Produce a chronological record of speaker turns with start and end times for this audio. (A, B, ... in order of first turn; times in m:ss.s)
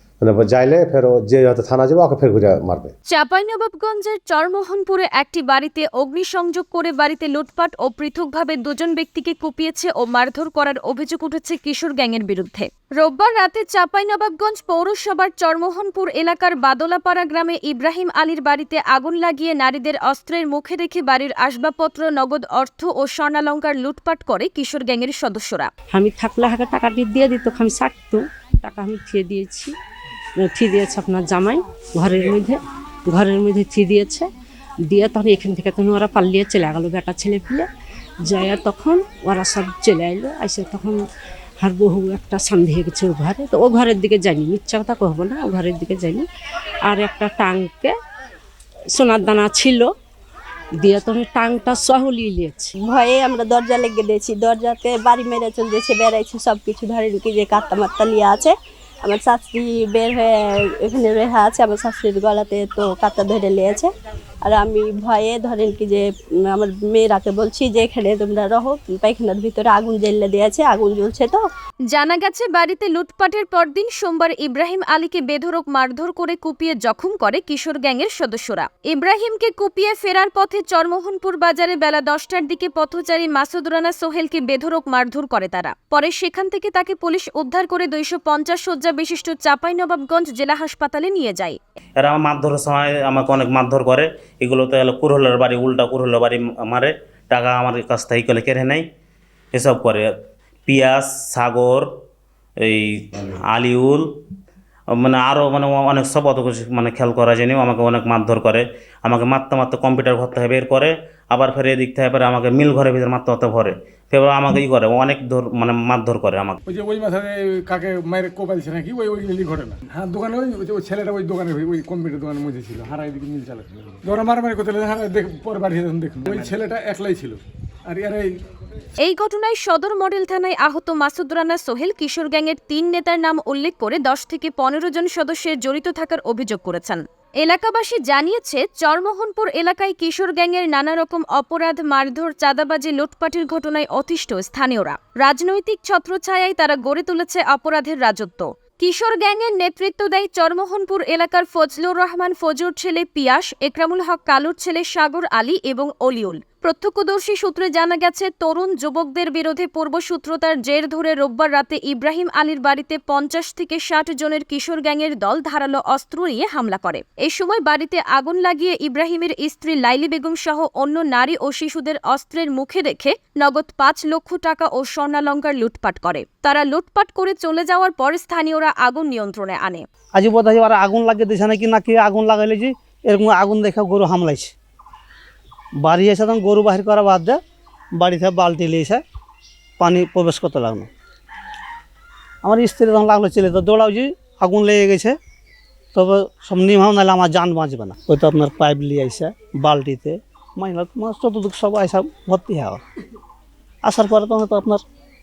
0:00.2-0:02.9 A
0:03.1-0:25.7 B
0:25.9-0:29.7 C
0:30.4-0:34.3 C
0:34.8-0:37.7 C
0:38.2-0:41.0 C
0:41.6-0:46.2 C
0:46.8-0:47.9 C
0:48.9-0:49.9 C
0:50.8-0:52.7 C
0:52.8-1:03.9 D
1:04.4-1:11.4 D
1:11.9-1:31.6 B
1:32.0-1:38.9 E
1:39.5-1:40.1 E
1:40.7-1:41.9 E
1:42.6-1:44.1 E
1:44.9-1:56.6 E
1:56.7-2:08.3 F
2:09.0-2:59.8 B
3:00.1-3:04.5 G
3:05.8-3:07.4 G
3:08.0-3:09.0 G
3:09.8-3:10.9 G
3:12.4-3:15.2 G
3:15.9-3:22.8 G
3:23.8-3:24.8 G